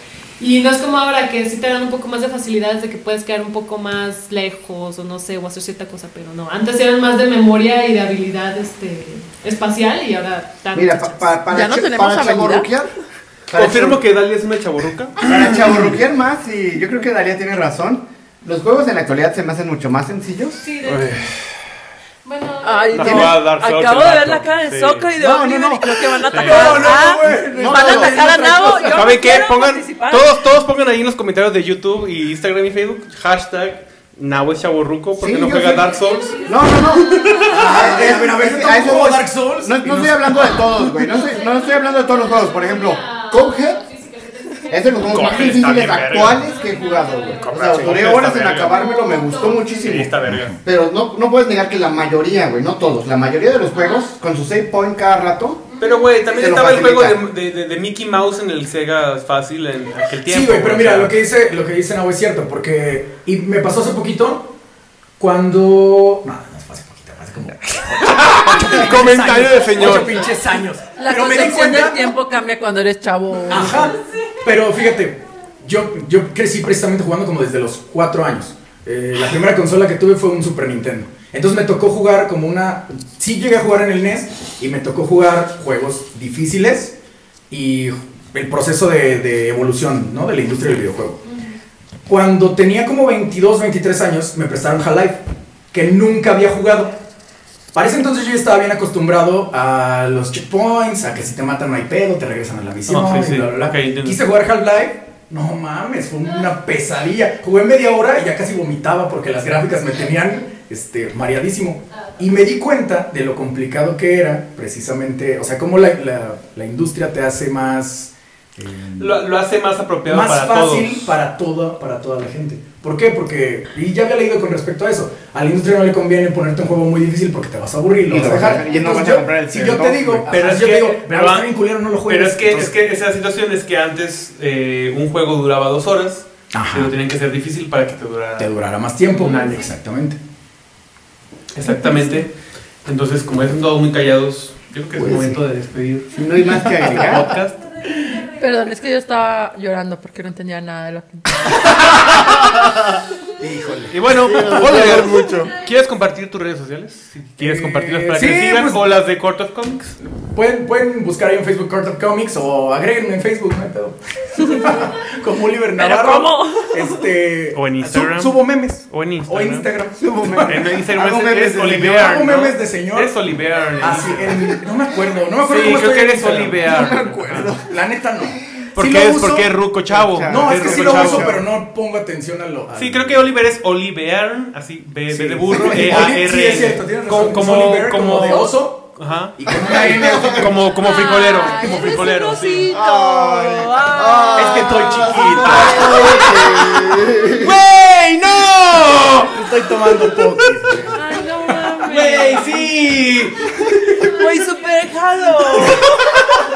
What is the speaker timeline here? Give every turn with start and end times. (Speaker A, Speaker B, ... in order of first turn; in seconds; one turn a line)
Speaker A: 0.4-11.3
Speaker B: 10.7-12.9
Speaker C: 11.5-12.7
Speaker B: 13.5-14.0
Speaker D: 13.5-15.8
Speaker B: 15.2-20.6
Speaker A: 20.6-21.4
Speaker D: 20.8-21.6
Speaker A: 22.2-23.2
Speaker C: 22.6-30.3
Speaker D: 22.9-25.1
Speaker B: 23.1-23.3
Speaker E: 25.2-29.0
Speaker D: 26.3-26.9
Speaker B: 26.7-28.9
Speaker D: 28.9-36.4
Speaker B: 35.2-36.0
Speaker A: 36.0-38.1
Speaker B: 36.5-43.8
Speaker E: 37.5-40.8
Speaker A: 41.0-50.0
Speaker B: 44.7-55.6
Speaker D: 45.1-46.4
Speaker D: 47.4-48.9
Speaker E: 47.7-48.0
Speaker D: 49.9-50.6
Speaker E: 50.2-50.6
Speaker A: 53.7-54.1
Speaker A: 55.7-56.4
Speaker D: 55.8-61.1
Speaker B: 56.4-57.2
Speaker E: 60.3-64.5
Speaker E: 65.2-72.2
Speaker D: 67.9-70.2
Speaker C: 71.0-74.0
Speaker E: 73.5-87.0
Speaker E: 87.5-91.2
Speaker E: 92.1-97.0
Speaker E: 97.7-119.2
Speaker D: 102.9-104.2
Speaker D: 119.0-121.1
Speaker E: 120.1-132.7
Speaker B: 128.1-130.3
Speaker D: 130.3-131.5
Speaker D: 132.1-138.5
Speaker E: 136.5-137.0
Speaker E: 138.4-140.2
Speaker D: 139.1-139.6
Speaker D: 141.6-142.3
Speaker C: 141.7-142.2
Speaker D: 142.8-147.6
Speaker B: 145.0-145.4
Speaker B: 146.1-147.3
Speaker C: 148.2-151.9
Speaker E: 153.4-154.0
Speaker D: 153.9-160.0
Speaker B: 154.1-155.6
Speaker E: 157.4-158.8
Speaker E: 160.2-170.8
Speaker C: 165.8-167.1
Speaker D: 167.5-168.4
Speaker D: 168.9-169.7
Speaker B: 170.0-171.9
Speaker D: 170.4-174.4
Speaker E: 171.6-173.2
Speaker E: 173.8-176.8
Speaker D: 175.4-177.6
Speaker B: 176.6-177.7
Speaker E: 177.3-179.6
Speaker D: 178.8-181.3
Speaker B: 179.9-181.4
Speaker E: 180.3-183.3
Speaker D: 182.7-189.4
Speaker E: 185.1-190.6
Speaker B: 185.5-185.8
Speaker B: 189.6-190.5
Speaker D: 190.1-192.7
Speaker C: 190.8-196.5
Speaker B: 192.7-197.5
Speaker E: 194.3-196.0
Speaker D: 195.4-199.3
Speaker E: 199.3-201.7
Speaker C: 200.9-202.7
Speaker D: 201.8-203.8
Speaker C: 204.0-206.2